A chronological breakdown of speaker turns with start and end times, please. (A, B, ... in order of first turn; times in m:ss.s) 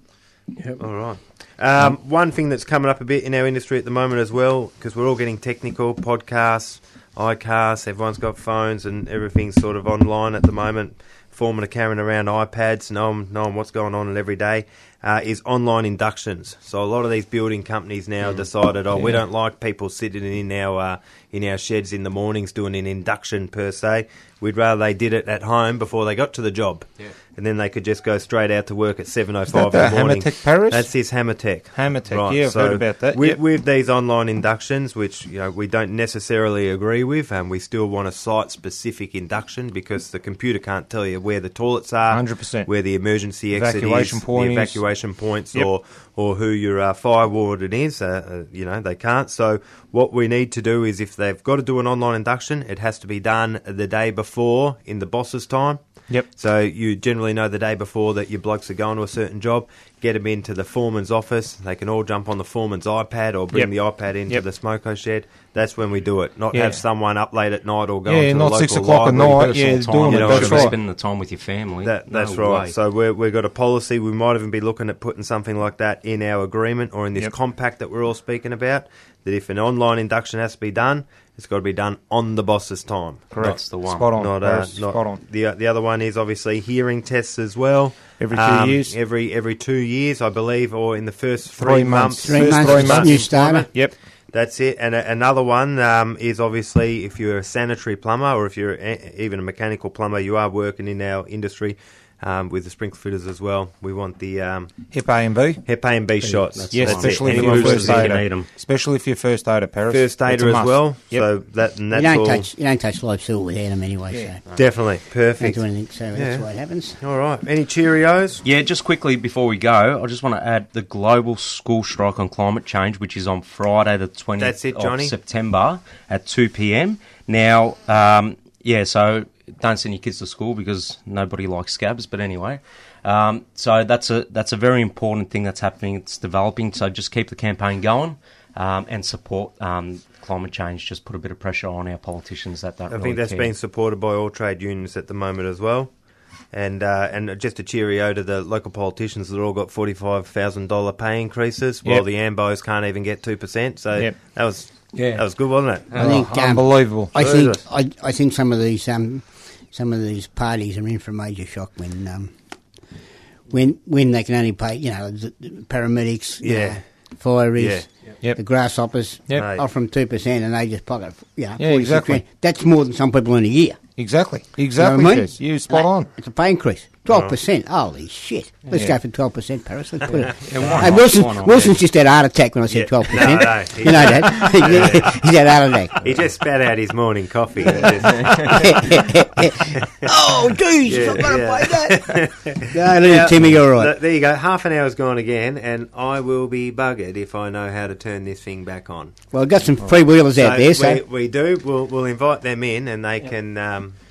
0:00.8-1:10.7 A
0:29.5-0:30.9 B
0:31.7-0:33.4 B
0:42.1-0:42.7 B
0:43.5-0:44.8 B
1:06.5-1:06.8 B
1:08.1-1:10.8 B
1:09.6-1:12.8 C
1:11.8-1:44.9 A
1:23.3-1:25.2 B
1:23.4-1:24.1 C
1:28.2-1:29.0 B
1:31.6-1:33.9 B
1:32.2-1:33.7 D
1:44.9-1:45.6 B
1:45.6-1:48.2 A
1:46.2-1:48.5 C
1:46.7-1:51.3 B
1:49.9-1:52.5 A
1:51.9-1:54.4 D
1:54.6-1:55.6 A
1:55.4-1:57.0 D
1:56.2-1:56.5 A
1:57.0-1:58.4 A
1:58.4-2:23.5 C
2:04.4-2:05.1 A
2:22.9-2:26.0 A
2:26.5-2:36.1 A
2:34.9-2:36.1 C
2:36.0-2:42.4 D
2:36.0-2:37.1 B
2:37.1-2:37.6 A
2:43.5-2:53.8 D
2:46.4-2:46.8 A
2:47.6-2:47.8 A
2:49.4-2:49.6 A
2:51.6-2:52.2 B
2:54.0-2:56.1 B
2:54.8-3:06.0 D
3:00.4-3:01.8 C
3:02.7-3:05.1 A
3:06.0-3:09.0 A
3:08.3-3:14.0 D
3:10.9-3:19.2 A
3:19.3-3:21.0 D
3:20.3-3:24.0 A